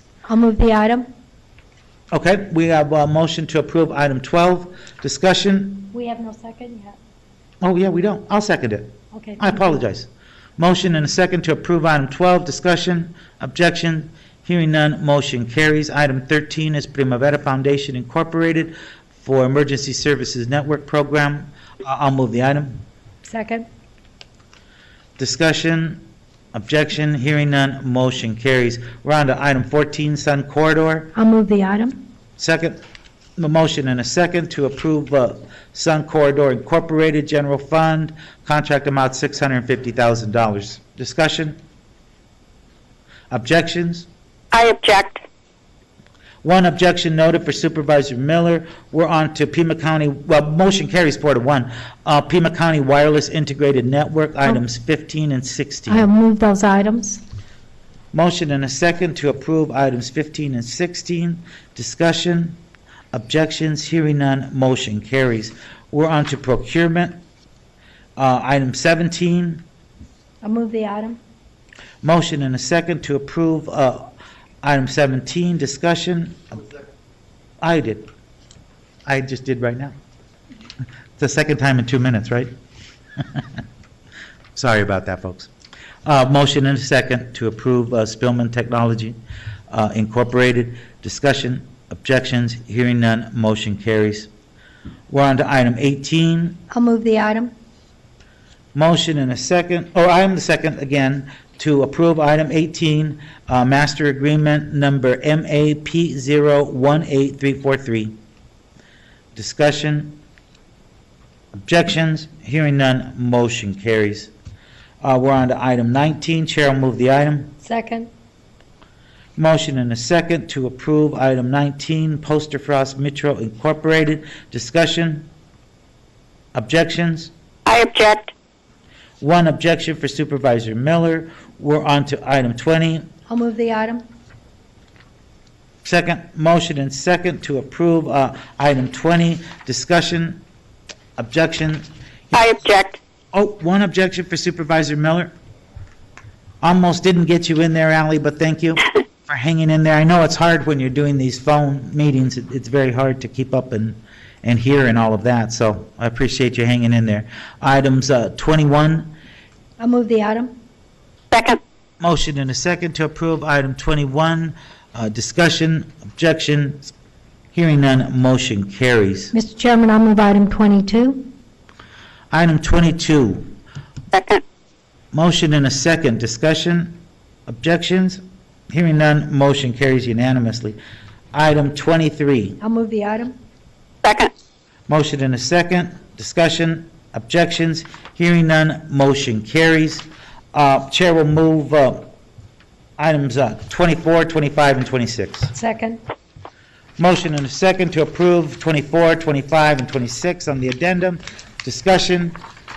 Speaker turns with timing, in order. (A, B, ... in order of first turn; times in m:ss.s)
0:00.3-0:01.1 A
0:02.1-0:05.9 B
0:05.9-0:07.0 A
0:07.6-0:22.8 B
0:09.1-0:09.7 A
0:23.2-0:23.7 A
0:25.2-0:31.1 B
0:31.1-0:32.0 A
0:32.4-0:32.8 B
0:33.4-0:41.6 B
0:43.3-0:44.1 B
0:44.5-0:45.2 C
0:46.4-0:56.1 B
0:55.9-0:57.2 A
0:58.1-1:02.6 B
1:03.1-1:07.2 B
1:08.2-1:09.6 B
1:10.4-1:11.2 A
1:12.0-1:14.1 B
1:14.6-1:16.6 B
1:17.6-1:18.1 B
1:19.0-1:19.9 B
1:21.2-1:22.5 B
1:24.6-1:25.5 B
1:26.0-1:29.2 B
1:29.7-1:34.3 B
1:35.1-1:36.6 B
1:36.7-1:37.5 A
1:38.7-1:48.1 B
1:49.3-1:50.2 B
1:51.6-1:54.3 B
1:55.0-1:57.5 B
1:57.6-1:58.1 A
1:59.4-2:05.3 B
2:06.5-2:07.3 B
2:07.6-2:08.3 C
2:09.2-2:13.1 B
2:13.3-2:14.0 A
2:15.8-2:20.4 B
2:21.2-2:21.9 B
2:22.3-2:23.0 C
2:23.3-2:25.3 B
2:26.6-2:39.1 B
2:39.8-2:40.6 A
2:41.3-2:41.6 C
2:42.0-2:46.9 B
2:47.5-2:49.3 B
2:49.3-2:51.3 A
2:52.3-2:53.5 B
2:54.1-2:54.4 C
2:55.1-2:58.2 B
2:58.7-3:00.8 B
3:01.3-3:02.6 B
3:02.6-3:03.4 A
3:04.0-3:04.3 C
3:04.9-3:12.1 B
3:13.0-3:15.5 B
3:15.5-3:16.0 A
3:17.0-3:22.4 B